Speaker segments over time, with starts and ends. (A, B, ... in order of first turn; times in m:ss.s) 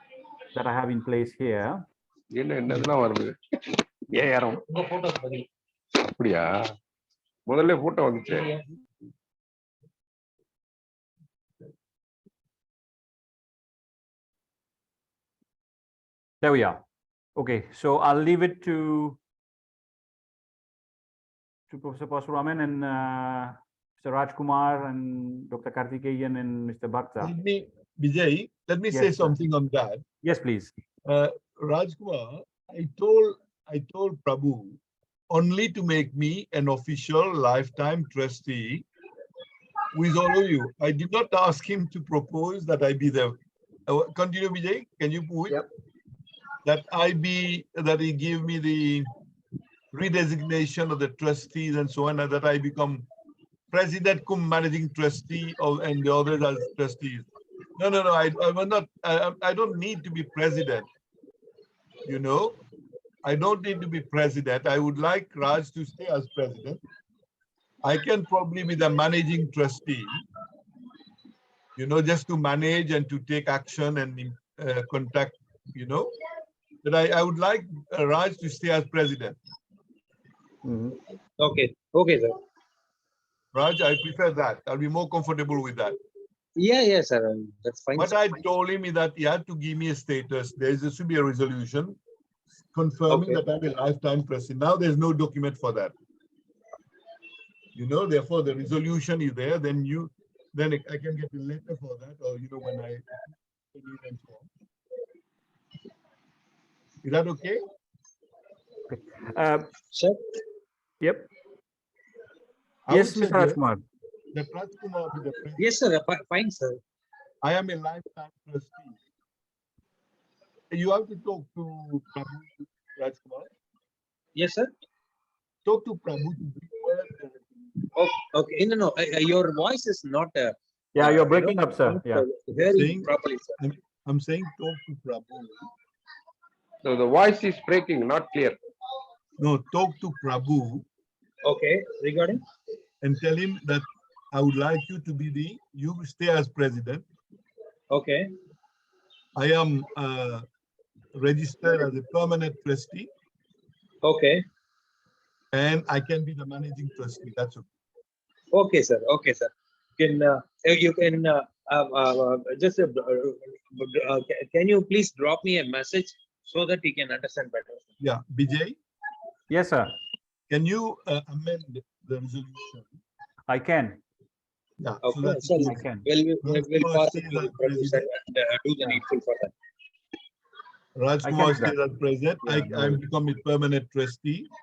0:00.5-0:01.8 A
0:02.3-0:04.7 B
0:04.8-0:05.4 C
0:06.0-0:06.8 B
0:07.4-0:08.5 B
0:16.4-0:16.8 A
0:17.4-0:19.2 A
0:21.7-0:27.3 A
0:27.2-0:30.0 D
0:28.9-0:29.4 A
0:30.2-0:30.7 A
0:31.0-0:34.8 D
0:35.3-0:38.8 D
0:39.9-0:43.4 D
0:43.9-0:45.7 D
0:46.6-0:49.1 D
0:49.9-0:53.0 D
0:53.7-1:00.9 D
1:02.0-1:02.6 D
1:03.2-1:06.8 D
1:07.8-1:10.2 D
1:11.8-1:16.1 D
1:16.8-1:19.4 D
1:20.6-1:21.0 A
1:21.4-1:22.4 C
1:23.5-1:26.0 D
1:26.6-1:28.3 C
1:28.0-1:32.0 D
1:32.7-1:35.9 D
1:33.1-1:33.4 C
1:37.8-1:43.1 D
1:43.7-1:44.5 D
1:47.0-1:47.6 D
1:48.9-1:49.8 A
1:49.9-1:50.2 C
1:51.0-1:51.3 A
1:52.9-1:53.6 D
1:52.9-1:53.8 A
1:54.3-1:55.7 D
1:55.6-1:56.8 C
1:57.4-1:59.0 D
2:00.7-2:03.5 D
2:04.4-2:04.7 C
2:05.6-2:07.6 D
2:07.9-2:13.6 C
2:11.0-2:12.2 A
2:12.7-2:15.7 D
2:16.8-2:18.6 B
2:19.4-2:20.9 D
2:21.4-2:22.4 C
2:23.0-2:27.0 D
2:27.9-2:28.3 C
2:29.4-2:30.4 D
2:31.2-2:33.1 D
2:34.0-2:34.4 C
2:35.5-2:37.7 D
2:38.5-2:47.9 C
2:48.0-2:48.8 D
2:49.5-2:50.0 A
2:50.5-2:52.9 D
2:53.5-2:54.0 A
2:54.8-2:55.8 D
2:55.0-2:59.5 C
2:55.6-2:56.0 A
2:56.4-2:58.0 D
3:00.9-3:04.5 D
3:01.2-3:01.8 A
3:02.4-3:03.0 A